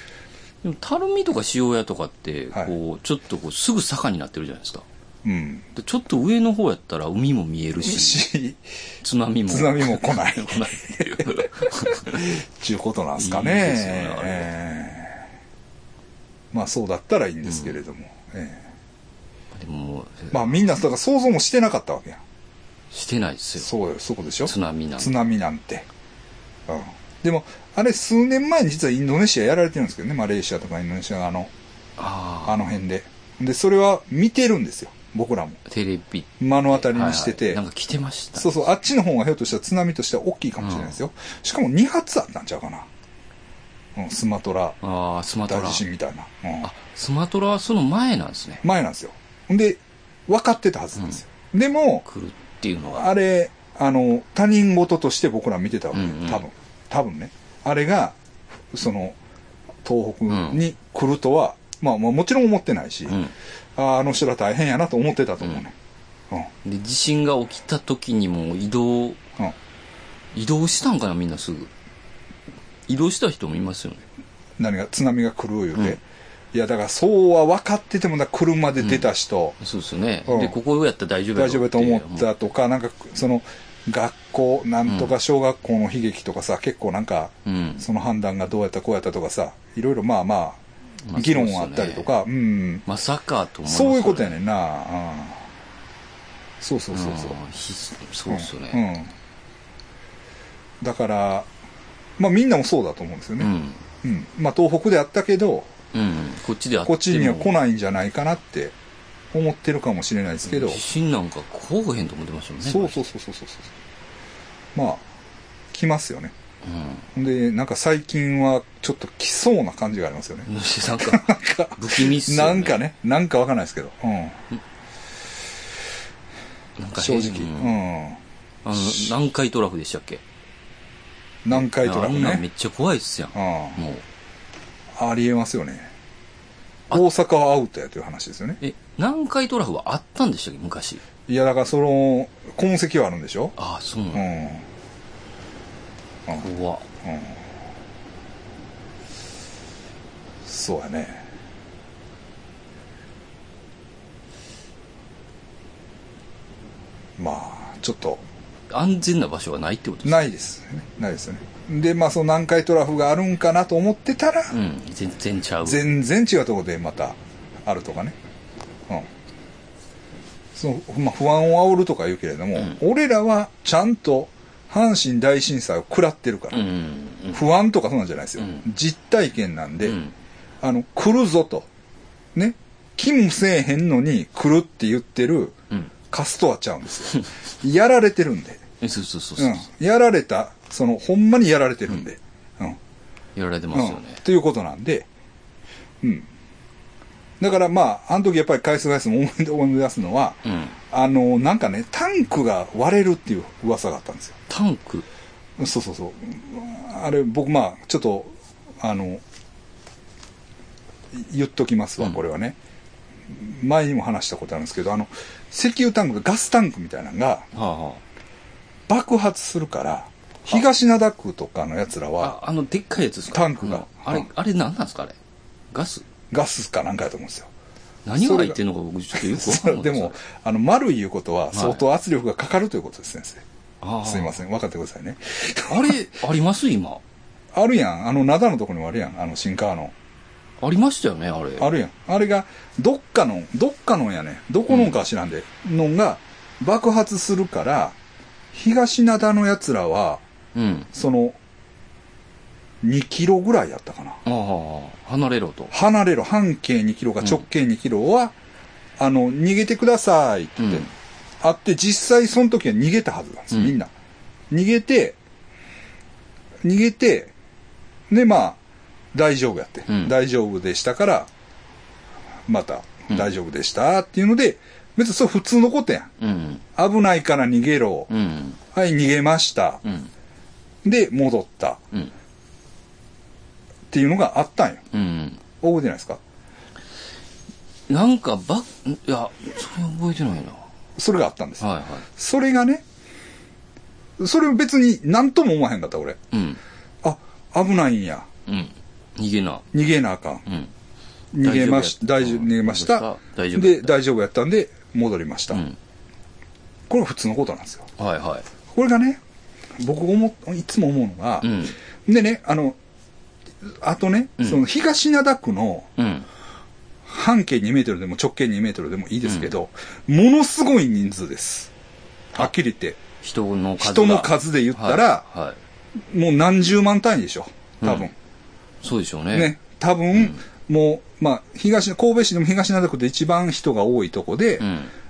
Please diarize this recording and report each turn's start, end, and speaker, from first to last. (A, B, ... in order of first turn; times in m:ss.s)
0:00.6-0:04.8 A
0:05.2-0:05.7 B
0:05.7-0:08.3 A
0:07.8-0:08.6 B
0:09.0-0:12.3 A
0:09.5-0:15.2 B
0:13.2-0:14.5 A
0:16.5-0:18.6 B
0:19.5-0:20.6 A
0:20.3-0:22.2 B
0:22.9-0:23.7 A
0:23.6-0:25.9 B
0:24.4-0:25.1 A
0:26.7-0:31.5 B
0:32.0-0:32.6 A
0:32.4-0:35.6 B
0:35.6-0:38.6 A
0:36.4-0:37.6 B
0:38.4-0:42.9 B
0:40.6-0:41.0 A
0:44.0-0:44.8 B
0:44.8-0:45.8 A
0:45.5-0:46.7 B
0:46.6-0:48.6 A
0:48.6-0:52.0 B
0:52.0-0:53.1 A
0:52.9-0:58.2 B
0:55.9-0:56.4 A
0:58.7-0:59.2 B
0:59.8-1:03.2 B
1:00.3-1:00.6 A
1:03.1-1:03.3 A
1:03.8-1:05.7 B
1:06.6-1:09.2 A
1:10.3-1:11.7 A
1:12.9-1:14.0 A
1:14.6-1:16.0 B
1:16.5-1:19.6 B
1:18.8-1:19.1 A
1:19.6-1:22.3 A
1:20.3-1:20.6 B
1:21.4-1:30.6 B
1:24.8-1:25.1 A
1:27.4-1:27.8 A
1:31.1-1:32.1 A
1:31.1-1:32.8 B
1:32.8-1:34.4 A
1:33.7-1:35.4 B
1:36.6-1:37.4 B
1:36.9-1:38.8 A
1:38.3-1:39.1 B
1:40.8-1:41.5 B
1:42.2-1:43.5 B
1:43.4-1:43.8 A
1:44.0-1:45.7 B
1:45.9-1:47.5 A
1:46.8-1:48.7 B
1:49.3-1:50.8 B
1:50.4-1:53.0 A
1:52.6-1:53.7 B
1:54.7-1:55.0 B
1:55.7-1:56.3 B
1:56.6-1:57.1 A
1:57.1-2:04.4 B
2:00.4-2:02.8 A
2:06.8-2:07.8 A
2:06.9-2:08.2 B
2:08.6-2:10.2 A
2:11.4-2:12.4 B
2:11.5-2:14.0 A
2:13.3-2:13.8 B
2:15.0-2:15.9 B
2:16.9-2:18.6 B
2:18.6-2:21.0 A
2:21.3-2:23.6 B
2:23.6-2:24.2 A
2:24.1-2:24.6 B
2:26.4-2:26.8 A
2:27.0-2:27.4 B
2:30.4-2:31.2 B
2:37.2-2:38.2 B
2:38.7-2:40.3 A
2:40.0-2:44.6 B
2:44.5-2:45.8 A
2:45.6-2:48.2 B
2:50.5-2:56.7 B
2:56.5-2:57.4 A
2:57.3-3:00.0 B
2:59.8-3:00.1 A
3:00.6-3:01.7 B
3:02.3-3:05.6 B
3:06.1-3:08.6 B
3:08.8-3:09.7 A
3:09.4-3:12.8 B
3:13.3-3:14.2 A
3:13.7-3:15.1 B
3:16.0-3:16.3 B
3:17.4-3:24.4 B
3:20.4-3:20.8 A
3:24.5-3:25.0 A
3:25.6-3:29.2 B
3:31.1-3:32.6 B
3:33.3-3:37.5 B
3:37.5-3:38.0 A
3:38.9-3:42.4 B
3:42.2-3:45.1 A
3:43.3-3:44.2 B
3:45.7-3:46.0 A
3:46.3-3:47.5 B
3:48.0-3:50.2 A
3:48.2-3:48.6 B
3:49.1-3:53.4 B
3:51.5-3:51.8 A
3:53.8-3:54.4 A
3:54.0-3:56.0 B
3:55.7-3:57.0 A
3:57.5-3:59.9 B
4:00.6-4:01.7 A
4:01.6-4:08.0 B
4:04.7-4:05.0 A
4:08.5-4:10.2 B
4:10.5-4:10.9 A
4:10.9-4:11.4 B
4:12.8-4:14.2 B
4:14.2-4:15.7 A
4:15.7-4:18.3 B
4:19.0-4:20.9 B
4:20.6-4:20.9 A
4:21.4-4:23.9 B
4:24.5-4:25.2 B
4:26.6-4:27.3 B
4:28.1-4:28.6 B
4:29.1-4:31.3 B
4:29.9-4:30.1 A
4:32.5-4:36.1 B
4:36.2-4:36.6 A
4:36.8-4:38.1 B
4:38.1-4:38.6 A
4:38.7-4:39.8 B
4:39.8-4:40.1 A
4:40.8-4:41.8 B
4:43.9-4:44.8 B
4:44.9-4:45.4 A
4:45.6-4:46.2 B
4:47.9-4:50.6 A
4:51.0-4:52.8 B
4:51.6-4:52.0 A
4:54.2-4:56.2 B
4:56.3-4:56.6 A
4:57.0-4:58.3 B
4:58.4-4:59.7 A
4:59.7-5:00.4 B
5:00.4-5:00.7 A
5:01.3-5:05.6 B
5:01.4-5:04.0 A
5:05.5-5:05.8 A
5:06.9-5:07.9 B
5:08.0-5:08.5 A
5:08.7-5:09.2 B
5:09.8-5:12.8 B
5:11.4-5:11.8 A
5:13.8-5:15.9 B
5:16.0-5:16.3 A
5:17.0-5:21.7 B
5:19.2-5:19.5 A
5:22.3-5:23.0 B
5:23.2-5:25.6 A
5:23.8-5:25.2 B
5:26.1-5:28.1 B
5:27.8-5:28.1 A
5:28.8-5:29.5 A
5:29.3-5:34.7 B
5:34.6-5:34.9 A